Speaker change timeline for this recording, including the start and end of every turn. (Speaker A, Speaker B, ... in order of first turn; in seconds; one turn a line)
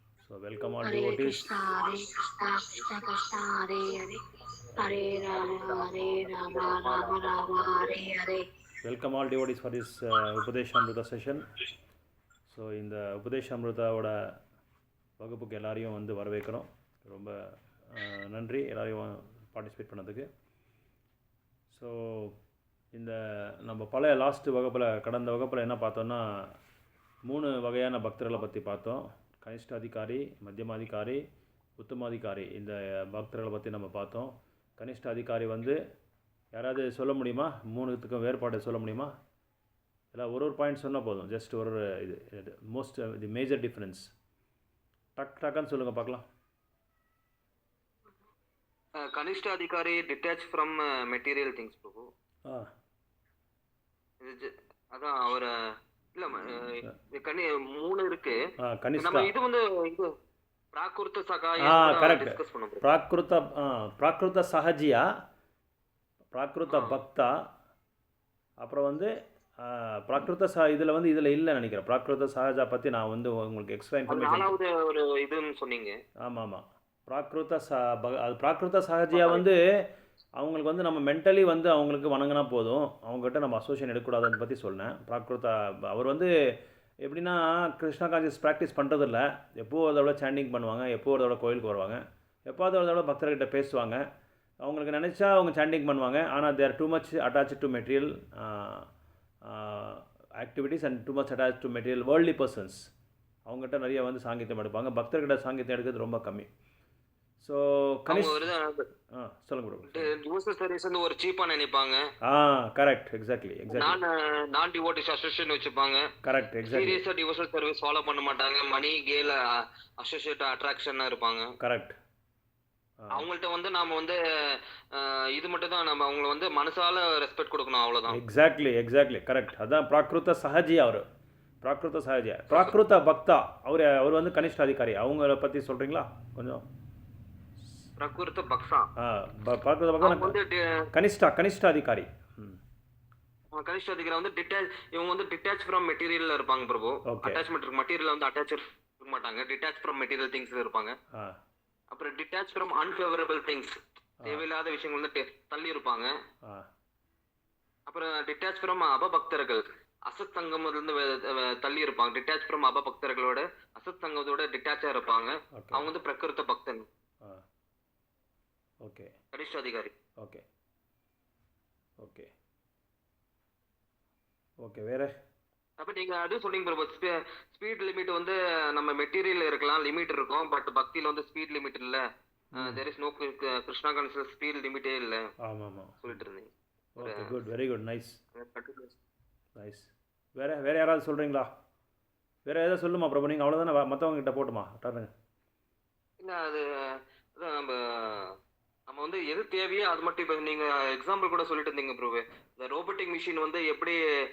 Speaker A: 0.2-1.6
Speaker B: 0.8-4.2
Speaker B: 4.8-8.4
Speaker C: 5.0-7.9
Speaker A: 8.8-11.4
Speaker A: 12.5-14.1
Speaker A: 15.2-17.3
Speaker A: 17.9-20.3
Speaker A: 21.7-22.4
Speaker A: 22.9-26.2
Speaker A: 27.3-31.2
Speaker A: 31.8-35.8
Speaker A: 36.5-39.1
Speaker A: 40.1-44.0
Speaker A: 45.2-46.2
Speaker C: 49.0-52.1
Speaker C: 54.2-55.5
Speaker C: 56.1-58.4
Speaker A: 58.6-59.3
Speaker C: 59.0-60.1
Speaker C: 60.7-62.8
Speaker A: 61.6-65.0
Speaker A: 66.3-67.4
Speaker C: 66.7-67.0
Speaker A: 68.6-69.1
Speaker A: 69.6-74.5
Speaker C: 74.1-76.0
Speaker A: 76.2-79.6
Speaker C: 79.1-79.5
Speaker A: 80.4-86.3
Speaker A: 87.0-94.0
Speaker A: 94.6-98.8
Speaker A: 99.5-102.8
Speaker A: 103.5-106.5
Speaker A: 107.4-108.5
Speaker C: 108.1-108.9
Speaker A: 109.1-110.1
Speaker C: 109.9-112.0
Speaker A: 112.2-114.0
Speaker C: 113.7-116.0
Speaker A: 116.2-117.0
Speaker C: 116.6-119.4
Speaker C: 120.0-121.5
Speaker A: 121.6-122.0
Speaker A: 123.0-123.3
Speaker C: 123.1-128.2
Speaker A: 128.1-131.0
Speaker A: 131.6-136.6
Speaker C: 138.0-138.9
Speaker A: 139.0-140.3
Speaker C: 140.0-140.7
Speaker A: 140.9-142.6
Speaker C: 143.5-150.9
Speaker A: 147.1-147.4
Speaker C: 151.9-156.1
Speaker A: 154.2-154.4
Speaker C: 157.9-166.9
Speaker A: 165.5-165.9
Speaker A: 168.8-169.1
Speaker C: 169.3-169.9
Speaker A: 172.0-172.3
Speaker A: 174.6-175.1
Speaker C: 175.8-182.0
Speaker A: 182.5-182.8
Speaker C: 182.6-185.3
Speaker A: 185.4-186.2
Speaker C: 186.0-187.4
Speaker A: 187.0-188.2
Speaker C: 188.3-188.9
Speaker A: 189.6-191.5
Speaker A: 192.4-195.1
Speaker C: 196.2-198.3
Speaker C: 198.9-204.0